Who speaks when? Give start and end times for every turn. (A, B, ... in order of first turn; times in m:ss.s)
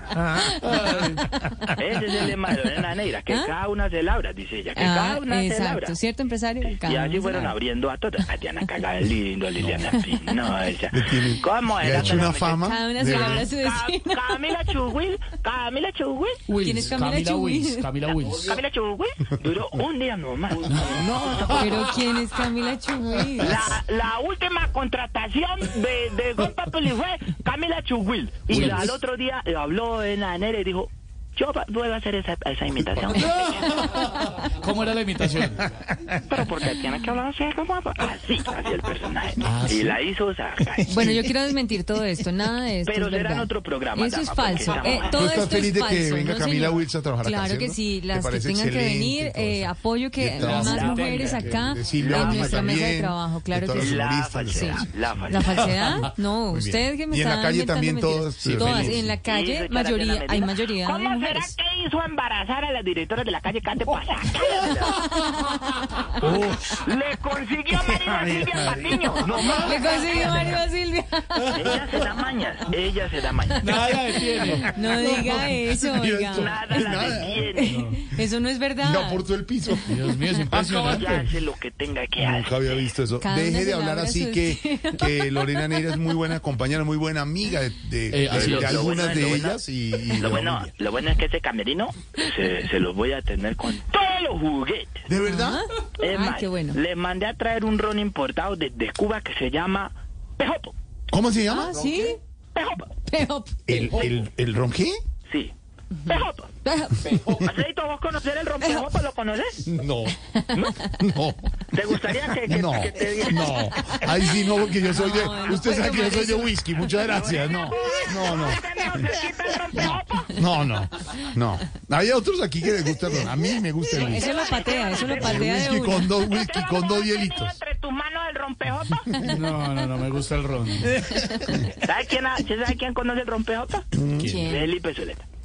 0:00.3-0:01.6 A
0:00.4-0:01.3 B
0:01.7-0:06.0 C
0:04.7-0:07.5 A
0:06.6-0:16.4 C
0:09.6-0:09.8 D
0:10.9-0:13.5 D
0:12.5-0:14.7 A
0:16.5-0:18.5 B
0:16.6-0:17.9 A
0:18.4-0:22.0 C
0:20.7-0:21.8 B
0:21.5-0:23.7 A
0:23.4-0:33.6 C
0:28.5-0:28.9 B
0:33.1-0:35.6 B
0:33.6-0:34.5 A
0:36.2-0:41.1 C
0:39.4-0:40.0 B
0:40.9-1:01.5 A
0:40.9-0:41.2 D
0:42.8-0:45.3 C
0:45.0-0:59.1 D
0:50.4-0:51.8 B
0:51.9-0:52.8 C
0:53.7-0:55.8 C
0:58.4-0:58.9 B
0:59.2-1:05.0 C
1:04.9-1:05.9 A
1:06.2-1:10.6 C
1:06.2-1:06.8 B
1:09.2-1:11.9 A
1:11.4-1:11.8 B
1:11.5-1:13.8 C
1:13.4-1:19.2 A
1:13.6-1:15.5 B
1:15.1-1:17.4 D
1:16.3-1:17.8 C
1:17.6-1:18.0 B
1:18.8-1:21.2 D
1:19.9-1:21.3 B
1:20.6-1:22.9 C
1:22.2-1:30.7 D
1:23.2-1:26.2 A
1:28.1-1:29.2 B
1:28.3-1:29.6 C
1:30.1-1:35.1 C
1:35.1-1:35.6 D
1:35.2-1:36.8 A
1:36.0-1:40.7 C
1:41.1-1:41.9 D
1:41.5-1:42.2 A
1:42.5-1:42.9 C
1:43.0-1:44.1 A
1:43.7-1:45.0 D
1:45.3-1:45.5 C
1:46.0-1:46.5 C
1:46.6-1:47.4 A
1:47.4-1:49.6 C
1:48.6-1:48.9 A
1:49.6-1:50.2 D
1:50.3-1:51.0 A
1:50.5-1:50.8 C
1:50.9-1:59.1 D
1:51.7-1:53.6 C
1:53.4-1:59.8 A
1:57.0-2:00.4 C
2:00.3-2:04.3 D
2:03.9-2:06.2 A
2:04.0-2:09.2 C
2:05.1-2:07.6 D
2:09.1-2:09.4 A
2:09.3-2:11.1 B
2:11.2-2:11.7 A
2:11.8-2:13.9 C
2:13.9-2:14.4 D
2:14.2-2:14.7 A
2:14.4-2:15.2 C